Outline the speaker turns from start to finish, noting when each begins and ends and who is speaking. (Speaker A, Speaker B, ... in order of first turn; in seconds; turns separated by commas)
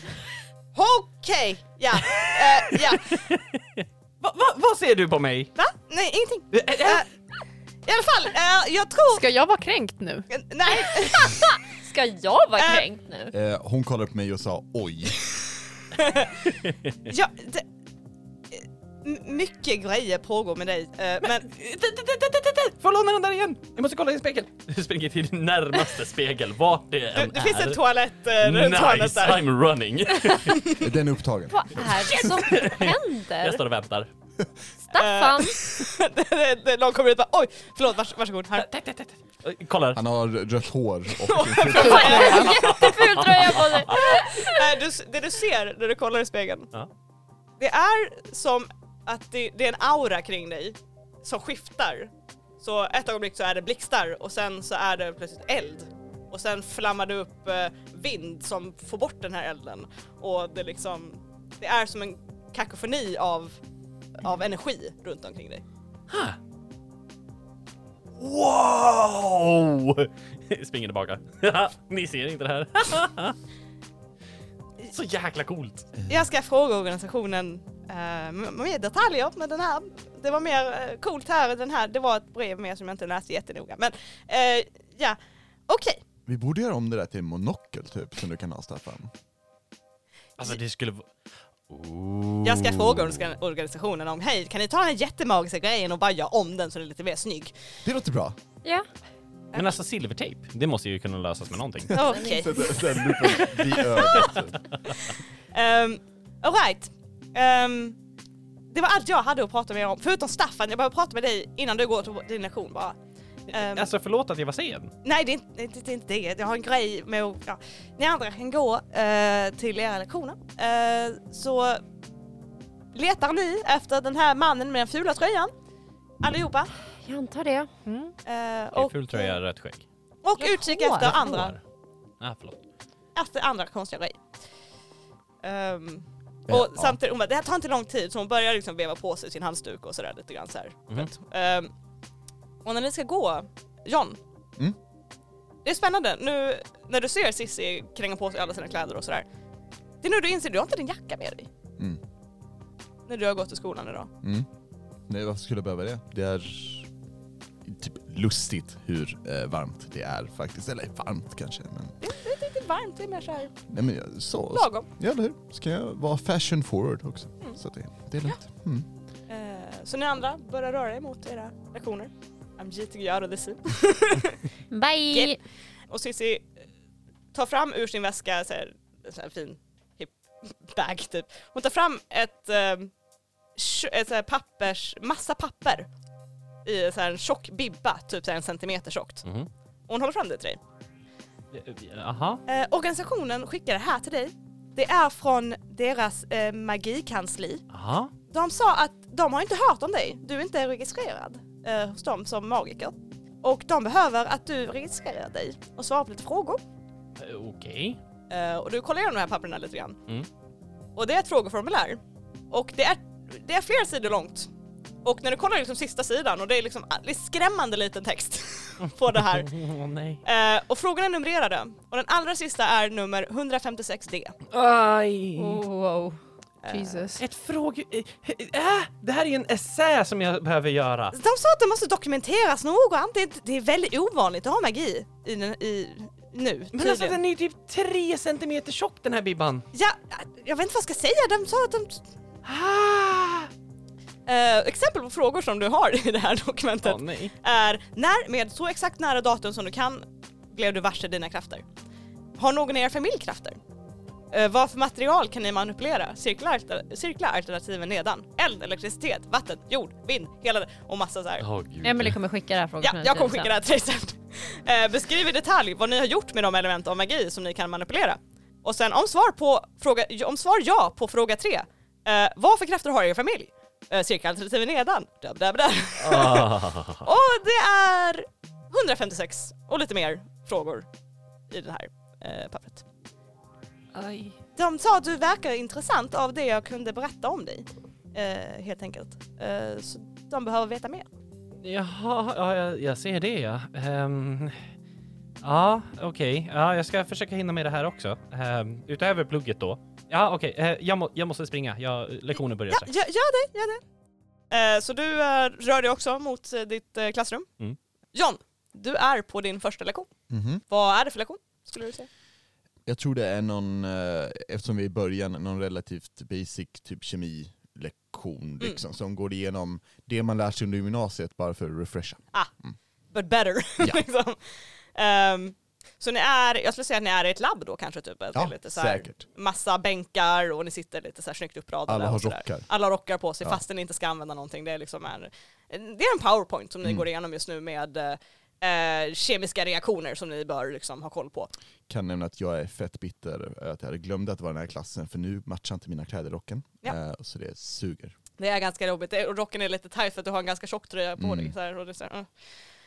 Speaker A: 0.7-3.3, Speaker B: 2.0-5.5, Speaker A: 5.6-7.1, Speaker B: 6.5-7.1, Speaker A: 7.9-9.2, Speaker C: 9.1-10.3, Speaker A: 10.3-11.6, Speaker D: 11.3-13.3, Speaker A: 12.6-12.8, Speaker E: 13.3-15.3, Speaker A: 15.9-16.4, Speaker B: 16.6-17.1, Speaker A: 17.1-17.6, Speaker A: 18.5-21.5, Speaker B: 21.2-27.8, Speaker A: 27.1-29.5, Speaker B: 28.4-30.8, Speaker E: 30.8-31.9, Speaker D: 31.5-33.6, Speaker B: 31.8-34.1, Speaker D: 34.9-35.6, Speaker A: 35.0-38.7, Speaker B: 38.6-40.0, Speaker E: 39.9-42.5, Speaker A: 41.2-43.0, Speaker D: 41.8-44.8, Speaker C: 41.8-42.5, Speaker B: 42.3-44.2, Speaker A: 43.9-46.7, Speaker A: 47.6-63.6, Speaker A: 64.2-65.6, Speaker B: 66.1-66.4, Speaker B: 68.2-73.4, Speaker B: 74.9-75.9, Speaker A: 76.1-86.0, Speaker E: 86.3-89.1, Speaker B: 90.4-91.1, Speaker B: 91.7-93.2, Speaker A: 92.4-97.5, Speaker E: 97.8-98.4, Speaker B: 99.5-102.1, Speaker A: 101.9-104.3, Speaker D: 102.0-102.6, Speaker E: 102.0-104.6, Speaker A: 105.0-108.0, Speaker A: 108.7-113.0, Speaker A: 113.5-113.9, Speaker B: 113.5-114.9, Speaker A: 115.0-121.8, Speaker A: 122.9-125.5, Speaker A: 126.2-126.7, Speaker D: 127.0-127.7, Speaker C: 127.9-128.1, Speaker A: 128.2-129.4, Speaker B: 128.7-129.8, Speaker A: 130.2-131.6, Speaker D: 130.6-130.9, Speaker B: 130.9-131.6, Speaker B: 132.2-132.6, Speaker A: 133.2-134.2, Speaker A: 135.4-141.7, Speaker E: 136.5-137.0, Speaker A: 142.6-144.2, Speaker A: 145.6-149.3, Speaker A: 150.0-151.5, Speaker A: 153.1-154.1, Speaker E: 154.2-154.5, Speaker E: 155.1-156.9, Speaker E: 157.7-162.0, Speaker A: 162.0-163.5, Speaker E: 163.7-168.9, Speaker A: 164.5-164.9, Speaker A: 169.3-174.5, Speaker D: 174.7-175.4, Speaker A: 175.9-176.5, Speaker A: 177.3-182.9, Speaker A: 183.6-185.9, Speaker A: 186.7-189.2, Speaker B: 189.2-189.5, Speaker A: 189.9-190.6, Speaker B: 191.5-192.4, Speaker A: 192.5-197.7, Speaker B: 197.7-198.1, Speaker A: 198.3-206.6, Speaker B: 207.2-208.0, Speaker A: 208.3-210.0, Speaker A: 211.0-214.5, Speaker A: 215.0-219.6, Speaker B: 218.8-220.2, Speaker A: 220.2-224.4, Speaker B: 224.5-225.6, Speaker D: 225.4-226.2, Speaker A: 226.6-227.1, Speaker C: 226.7-227.2, Speaker B: 227.2-231.2, Speaker A: 231.1-237.2, Speaker B: 236.7-239.7, Speaker A: 239.7-242.0, Speaker B: 242.4-243.5, Speaker A: 244.3-251.7, Speaker B: 246.8-247.3, Speaker A: 252.4-253.6, Speaker A: 254.3-261.5, Speaker B: 261.4-262.2, Speaker D: 261.8-263.5, Speaker A: 262.8-280.9, Speaker B: 276.0-277.1, Speaker A: 281.5-282.8, Speaker B: 283.9-284.4, Speaker A: 284.6-291.1, Speaker B: 291.6-294.7, Speaker B: 295.4-302.9, Speaker A: 302.7-303.8, Speaker A: 304.5-307.5, Speaker A: 308.1-310.1, Speaker E: 310.3-310.6, Speaker A: 310.7-312.1, Speaker E: 312.9-322.8, Speaker A: 323.1-324.4, Speaker A: 324.9-341.5, Speaker E: 328.3-329.2, Speaker E: 331.9-332.7, Speaker E: 341.9-348.2, Speaker A: 348.4-352.3, Speaker E: 351.2-351.5